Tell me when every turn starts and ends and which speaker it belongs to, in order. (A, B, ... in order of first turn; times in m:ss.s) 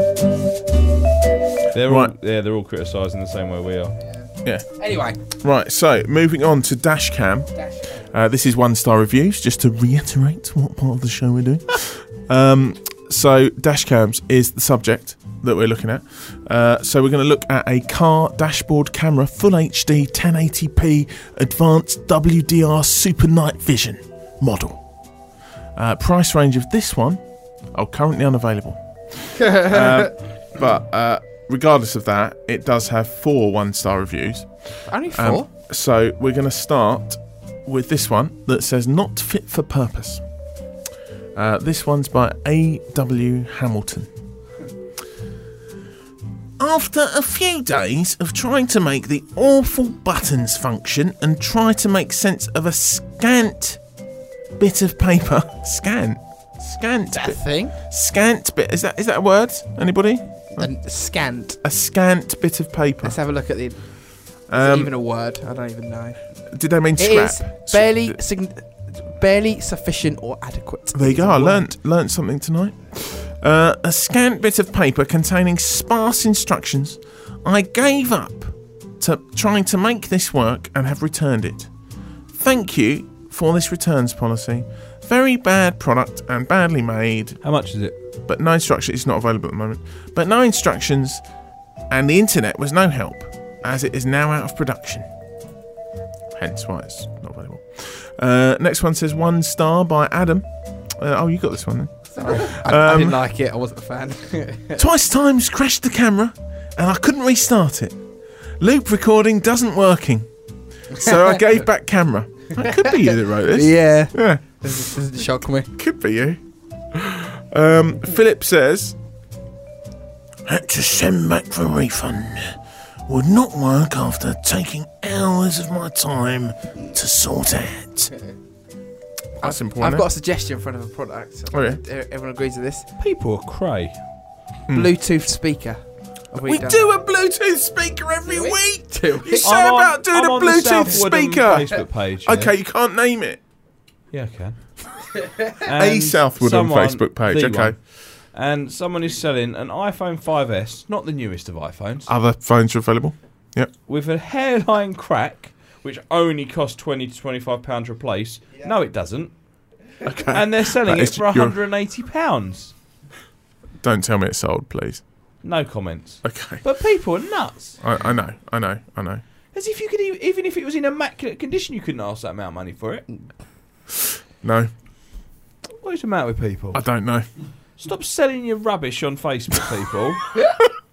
0:01.7-0:04.0 A
0:01.8-0:02.1 B
0:04.0-0:05.2 C
0:04.4-0:04.7 B
0:05.2-0:07.5 B
0:07.6-0:08.1 C
0:08.1-0:24.8 B
0:25.8-0:40.2 B
0:29.4-0:30.1 C
0:34.9-0:35.5 C
0:41.4-0:44.1 B
0:46.6-0:53.8 B
0:54.6-1:00.7 B
0:57.2-0:57.7 C
1:00.6-1:01.6 C
1:01.6-1:03.2 B
1:03.0-1:06.2 C
1:04.5-1:04.9 B
1:06.5-1:08.2 B
1:07.0-1:11.7 C
1:10.9-1:21.7 B
1:22.3-1:27.4 B
1:27.4-1:28.0 A
1:28.3-1:31.2 B
1:31.9-1:35.1 B
1:36.4-1:40.5 B
1:41.0-1:43.2 B
1:42.2-1:44.8 C
1:44.8-1:48.0 B
1:48.6-1:50.3 B
1:50.9-1:54.9 B
1:52.6-1:55.7 C
1:55.7-1:56.4 B
1:56.9-1:59.0 B
2:00.5-2:08.1 B
2:09.4-2:10.1 B
2:09.4-2:12.9 C
2:11.5-2:11.8 B
2:13.0-2:14.0 A
2:14.7-2:14.9 B
2:14.7-2:16.9 C
2:16.4-2:23.4 B
2:18.2-2:19.5 C
2:19.4-2:22.5 A
2:24.1-2:24.6 A
2:25.6-2:27.8 A
2:25.7-2:27.8 B
2:28.3-2:32.1 A
2:32.1-2:33.7 B
2:33.9-2:39.3 A
2:40.0-2:41.6 B
2:40.3-2:42.7 A
2:43.8-2:45.0 B
2:45.4-2:47.8 A
2:46.2-2:46.6 B
2:47.8-2:49.2 B
2:49.5-2:53.1 A
2:54.4-2:54.7 B
2:55.8-2:56.8 A
2:56.7-2:57.3 B
2:57.8-3:00.2 A